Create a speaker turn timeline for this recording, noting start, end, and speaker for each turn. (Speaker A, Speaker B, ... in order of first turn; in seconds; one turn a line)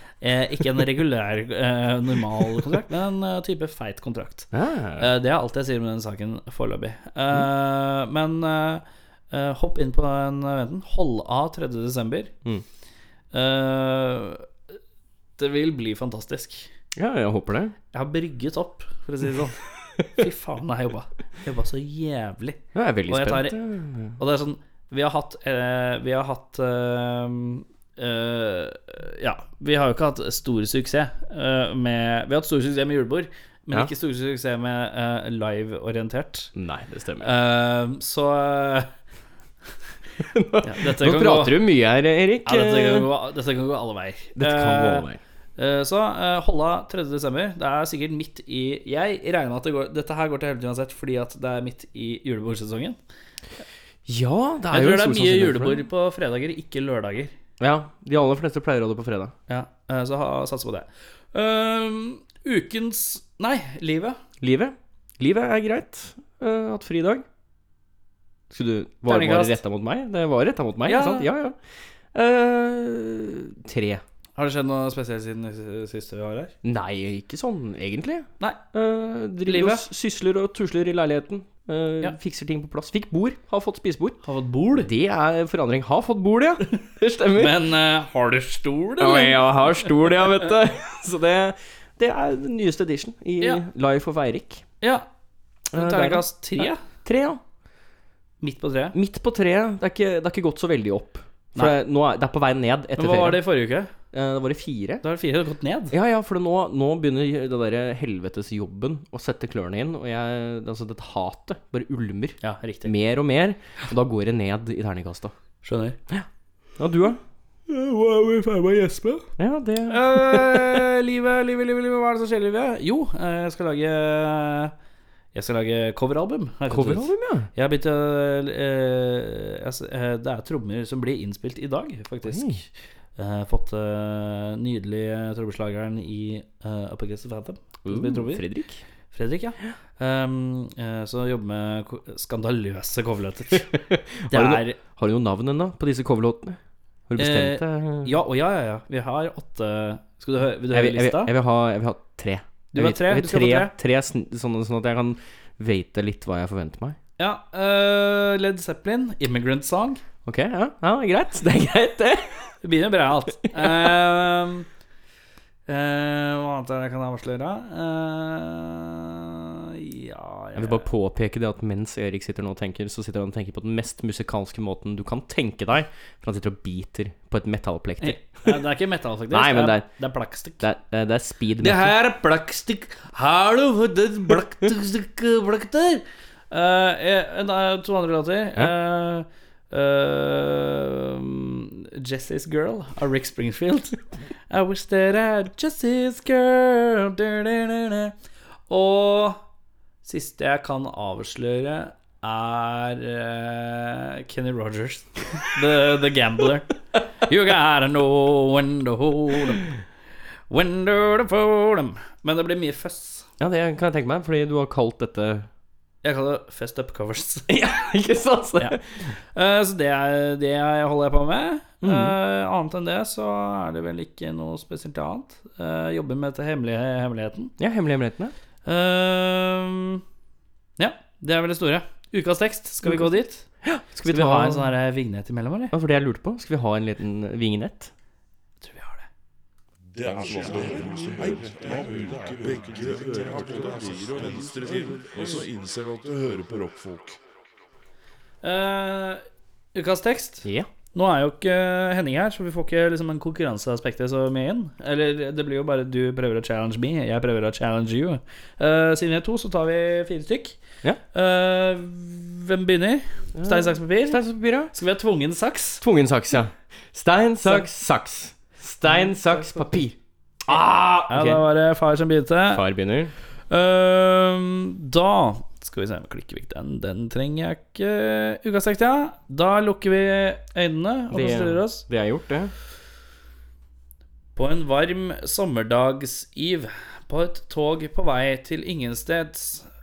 Speaker A: 0.2-12.3
Speaker B: 4.5-5.1
Speaker A: 13.3-14.5
Speaker A: 15.4-16.7
Speaker B: 17.0-17.8
Speaker A: 17.9-19.6
Speaker A: 20.1-36.5
Speaker B: 22.8-24.1
Speaker B: 36.5-37.3
Speaker A: 37.2-38.9
Speaker B: 40.3-43.1
Speaker A: 40.6-41.6
Speaker A: 42.5-45.1
Speaker B: 44.4-45.2
Speaker A: 45.6-53.0
Speaker B: 54.1-55.8
Speaker A: 54.7-57.3
Speaker B: 57.6-59.3
Speaker A: 59.5-64.2
Speaker B: 64.4-67.2
Speaker B: 68.5-74.0
Speaker A: 69.1-69.6
Speaker A: 70.9-71.3
Speaker A: 74.4-76.5
Speaker B: 76.6-84.2
Speaker A: 79.5-79.8
Speaker A: 84.2-84.9
Speaker B: 84.8-87.6
Speaker A: 87.4-89.9
Speaker B: 89.0-94.7
Speaker A: 94.8-95.1
Speaker A: 95.7-96.8
Speaker B: 95.7-97.4
Speaker A: 98.4-99.0
Speaker B: 98.9-105.0
Speaker A: 103.0-103.9
Speaker A: 105.0-105.9
Speaker B: 105.9-115.3
Speaker A: 112.4-112.9
Speaker A: 115.6-116.0
Speaker B: 116.8-117.2
Speaker A: 117.7-119.3
Speaker B: 119.4-120.7
Speaker A: 119.9-124.7
Speaker A: 125.3-138.4
Speaker B: 126.7-127.5
Speaker B: 132.2-132.6
Speaker B: 137.8-138.8
Speaker A: 139.1-144.8
Speaker B: 144.3-148.1
Speaker A: 147.2-151.3
Speaker B: 150.7-157.0
Speaker A: 152.7-153.7
Speaker A: 157.2-160.0
Speaker B: 160.3-162.6
Speaker A: 162.6-164.7
Speaker A: 165.7-170.9
Speaker B: 170.6-178.6
Speaker A: 178.0-180.7
Speaker B: 179.3-182.0
Speaker A: 181.6-198.1
Speaker A: 198.7-199.4
Speaker A: 200.0-206.7
Speaker A: 207.3-209.7
Speaker A: 210.5-213.3
Speaker B: 213.4-215.5
Speaker A: 216.0-217.5
Speaker B: 217.5-218.9
Speaker A: 218.6-227.6
Speaker B: 221.8-222.2
Speaker B: 227.6-228.3
Speaker A: 228.7-230.0
Speaker A: 230.8-235.7
Speaker B: 232.8-234.8
Speaker B: 235.7-237.9
Speaker A: 238.6-239.1
Speaker C: 240.0-247.2
Speaker A: 248.4-260.6
Speaker A: 261.1-265.8
Speaker B: 263.4-264.7
Speaker B: 265.8-270.0
Speaker A: 267.4-267.7
Speaker A: 268.8-269.7
Speaker A: 270.5-272.6
Speaker B: 270.5-271.4
Speaker B: 272.5-273.1
Speaker A: 273.5-281.9
Speaker B: 281.1-282.5
Speaker A: 284.4-289.7